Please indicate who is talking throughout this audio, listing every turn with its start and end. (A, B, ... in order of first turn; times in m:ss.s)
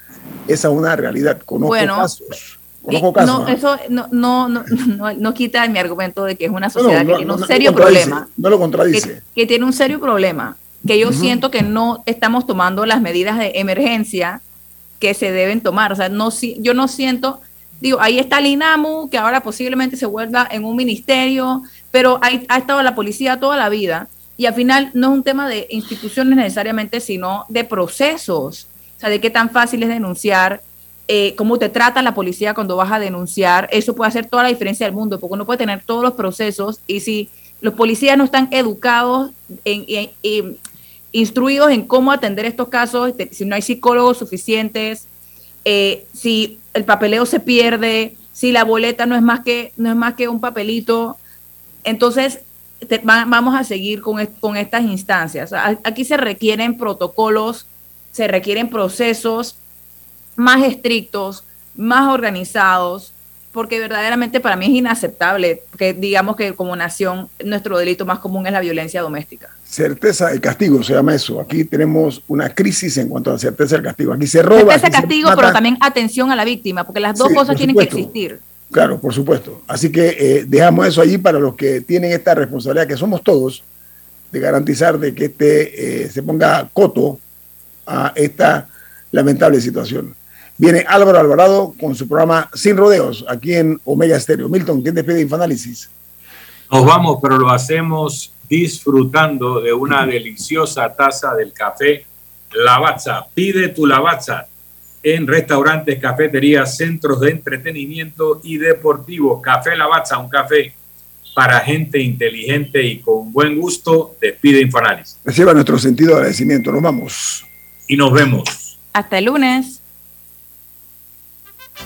0:00.5-0:03.6 A
0:01.6-0:02.1 B
0:02.9-0:08.3 B
0:06.8-0:09.2 A
0:08.9-0:14.4 B
0:11.1-0:11.4 A
0:15.0-0:40.6 B
0:41.1-0:45.1 B
0:45.6-0:51.2 B
0:51.8-0:59.6 B
1:00.4-1:09.5 B
1:09.7-1:15.6 A
1:14.6-1:18.4 B
1:17.2-1:18.1 A
1:18.7-1:23.6 A
1:24.3-1:27.2 A
1:27.9-1:35.9 A
1:36.7-1:44.5 C
1:45.0-1:50.8 C
1:51.4-1:55.2 C
1:55.2-1:57.5 A
1:57.9-1:58.8 C
1:58.9-1:59.8 B